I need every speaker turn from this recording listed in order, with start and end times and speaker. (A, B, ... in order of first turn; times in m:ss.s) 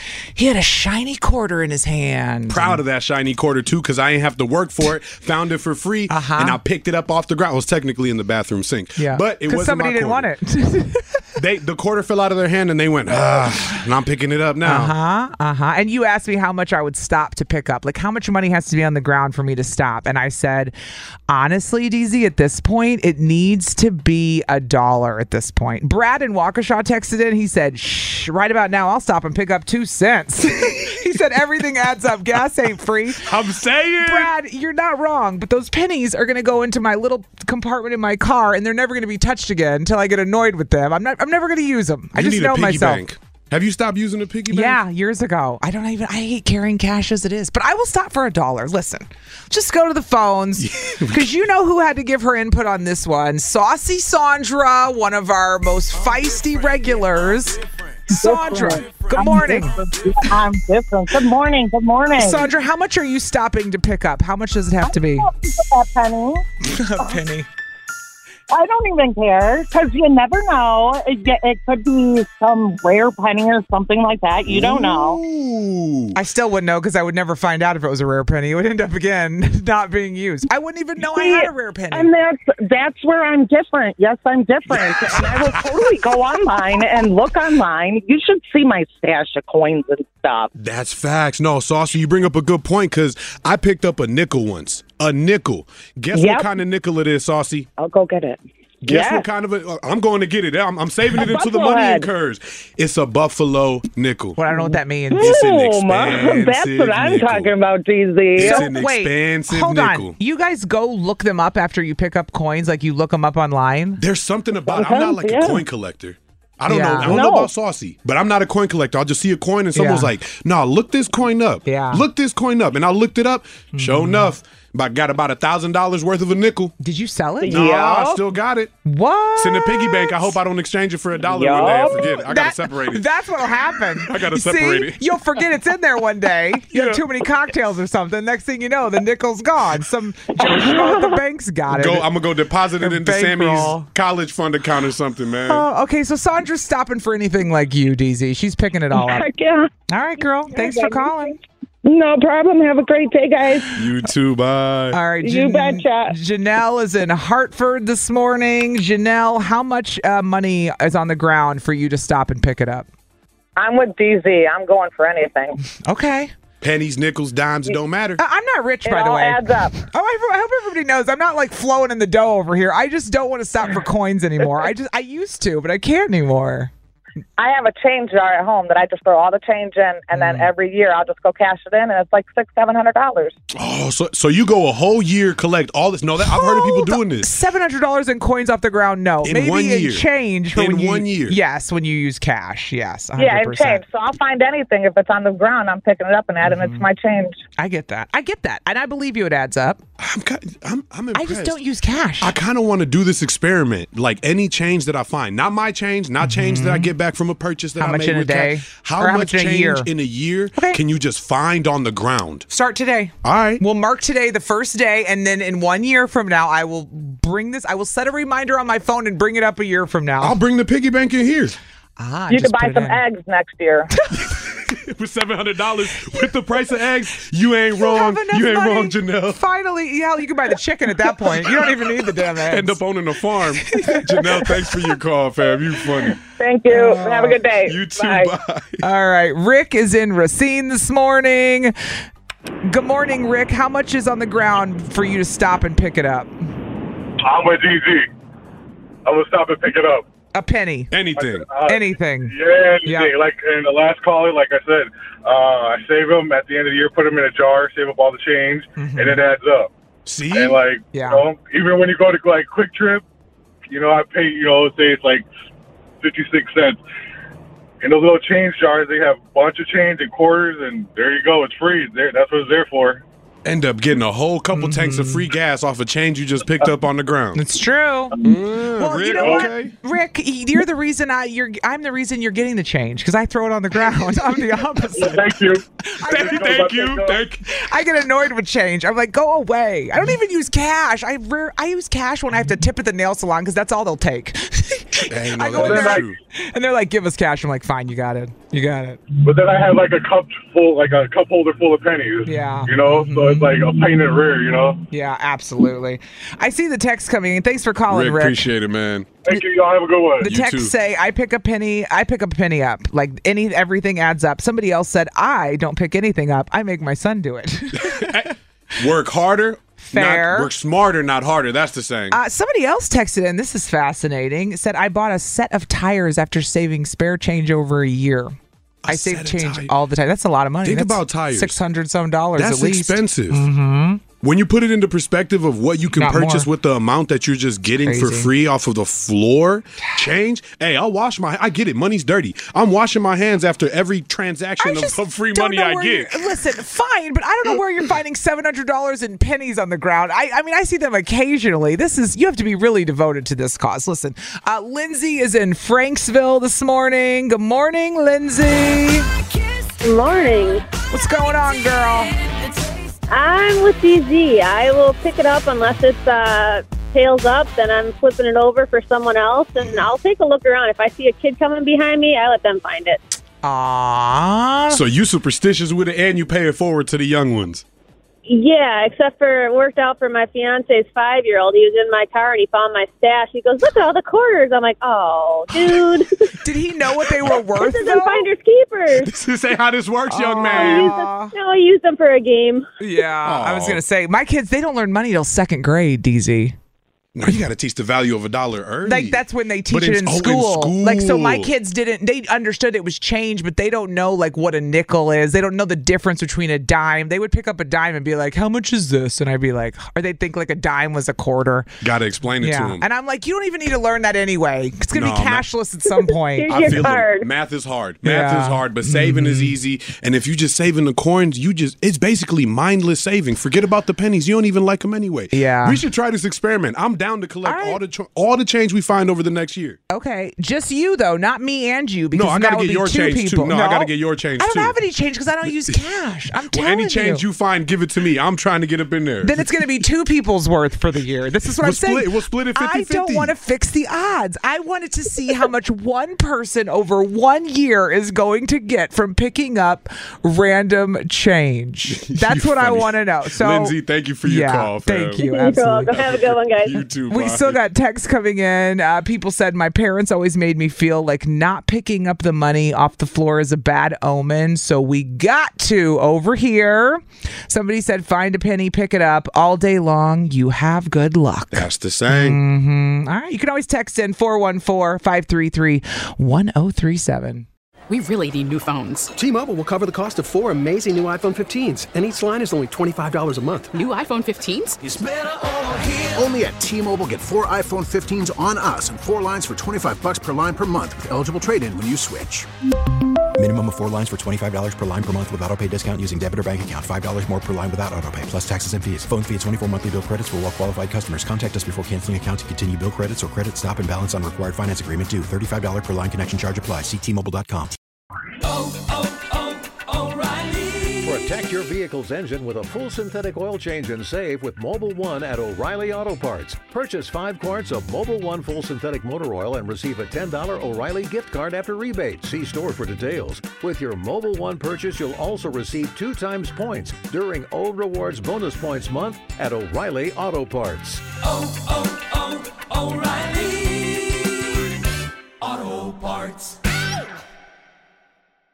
0:00.4-0:02.8 A
0:02.5-0:10.3 B
0:06.1-0:06.6 A
0:09.0-0:11.2 A
0:11.4-0:14.9 B
0:14.6-0:20.7 A
0:21.3-0:33.3 A
0:33.2-0:34.3 B
0:34.0-0:43.0 A
0:42.1-0:44.8 B
0:44.5-0:59.8 A
0:50.6-0:51.3 B
0:58.2-1:02.5 C
1:02.2-1:05.3 A
1:04.8-1:06.4 C
1:06.6-1:07.5 A
1:08.5-1:15.2 C
1:14.5-1:16.2 B
1:16.1-1:22.1 A
1:21.0-1:30.5 C
1:24.7-1:25.7 B
1:30.6-1:37.7 B
1:36.1-1:36.5 C
1:37.8-1:39.3 C
1:38.8-1:44.4 B
1:41.1-1:42.1 C
1:44.4-1:45.5 A
1:44.5-1:48.7 C
1:45.2-1:47.5 B
1:48.4-1:50.2 B
1:48.4-1:54.0 A
1:54.0-2:06.7 B
1:54.7-1:55.6 C
1:56.7-1:57.2 A
1:57.0-1:57.5 C
1:59.8-2:00.1 A
2:01.7-2:02.0 A
2:03.8-2:04.3 A
2:06.8-2:08.1 A
2:07.4-2:08.2 C
2:07.4-2:08.7 B
2:08.8-2:10.4 A
2:09.4-2:13.1 B
2:11.2-2:12.1 C
2:12.1-2:22.1 A
2:13.7-2:15.2 B
2:16.7-2:17.0 B
2:20.4-2:21.2 C
2:21.7-2:25.6 B
2:22.8-2:23.9 A
2:25.5-2:29.3 A
2:29.0-2:29.7 C
2:29.9-2:31.4 A
2:30.5-2:31.1 C
2:31.8-2:33.9 C
2:33.8-2:35.0 B
2:34.9-2:42.9 A
2:35.2-2:36.1 C
2:43.6-2:45.6 C
2:45.7-2:46.3 A
2:46.6-2:48.2 B
2:48.2-2:56.7 A
2:48.8-2:49.8 C
2:57.4-3:03.3 C
3:00.1-3:00.5 A
3:03.5-3:07.3 B
3:06.2-3:13.8 A
3:09.2-3:11.4 B
3:13.2-3:17.4 C
3:16.4-3:16.9 A
3:17.6-3:19.8 A
3:20.0-3:21.6 B
3:21.1-3:22.4 A
3:22.2-3:32.5 B
3:26.2-3:26.9 A
3:27.8-3:29.9 A
3:30.5-3:30.8 A
3:32.5-3:40.4 A
3:33.2-3:33.6 B
3:40.2-3:41.6 B
3:42.0-3:43.0 A
3:42.3-3:43.9 C
3:44.1-3:49.4 B
3:47.8-3:52.8 A
3:51.4-3:51.8 B
3:52.5-3:58.8 B
3:53.7-3:54.6 A
3:56.4-3:58.3 C
3:58.8-4:01.7 A
4:02.6-4:06.3 A
4:07.2-4:08.1 D
4:09.0-4:10.1 D
4:10.4-4:10.9 A
4:10.9-4:11.5 B
4:11.2-4:19.7 D
4:11.7-4:12.3 A
4:12.8-4:13.1 A
4:18.8-4:19.2 A
4:20.1-4:20.6 B
4:20.3-4:23.0 D
4:20.9-4:21.2 A
4:23.7-4:25.3 D
4:26.0-4:26.8 D
4:27.8-4:33.0 D
4:33.4-4:37.4 B
4:34.5-4:35.2 A
4:37.4-4:38.2 A
4:38.2-4:39.8 B
4:38.8-4:45.2 A
4:39.2-4:39.5 D
4:45.0-4:45.6 D
4:45.9-4:46.5 A
4:46.0-4:47.4 B
4:46.2-4:47.2 D
4:47.5-4:59.0 A
4:55.1-4:56.2 B
4:55.6-4:56.0 D
4:59.2-5:04.8 D
5:02.3-5:03.6 A
5:04.9-5:08.5 A
5:07.9-5:09.1 B
5:09.2-5:10.3 D
5:10.2-5:18.2 A
5:10.2-5:10.7 B
5:17.7-5:22.2 B
5:19.9-5:20.5 A
5:22.1-5:28.4 A
5:28.8-5:29.7 B
5:28.9-5:34.0 A
5:30.6-5:31.6 B
5:32.4-5:33.5 B
5:34.2-5:46.4 B
5:35.9-5:36.5 A
5:37.8-5:38.3 A
5:44.6-5:59.1 A
5:59.8-6:00.6 E
6:00.9-6:02.2 A
6:03.1-6:13.0 E
6:13.4-6:14.8 A
6:14.7-6:17.6 B
6:18.3-6:26.1 E
6:26.4-6:28.3 A
6:27.5-6:29.1 E
6:29.0-6:30.9 B
6:30.1-6:31.3 A
6:30.4-6:32.7 E
6:32.8-6:36.6 A
6:33.2-6:33.8 B
6:37.2-6:41.5 B
6:38.8-6:51.7 A
6:51.8-6:52.8 B
6:52.4-6:56.9 A
6:54.9-6:55.5 B
6:55.9-6:57.3 E
6:56.5-7:09.8 B
6:58.0-6:59.6 A
7:05.3-7:05.8 A
7:07.4-7:07.8 A
7:09.9-7:17.2 A
7:12.1-7:14.8 B
7:15.5-7:15.8 B
7:16.4-7:19.8 B
7:19.2-7:36.0 A
7:21.6-7:23.3 B
7:31.9-7:35.2 B
7:35.2-7:36.8 E
7:35.9-7:37.6 B
7:37.1-7:57.5 A
7:51.5-7:52.4 B
7:57.9-7:59.1 F
7:59.2-8:03.7 G
8:03.7-8:04.8 F
8:04.8-8:12.5 H
8:13.4-8:27.8 I
8:31.0-8:51.0 J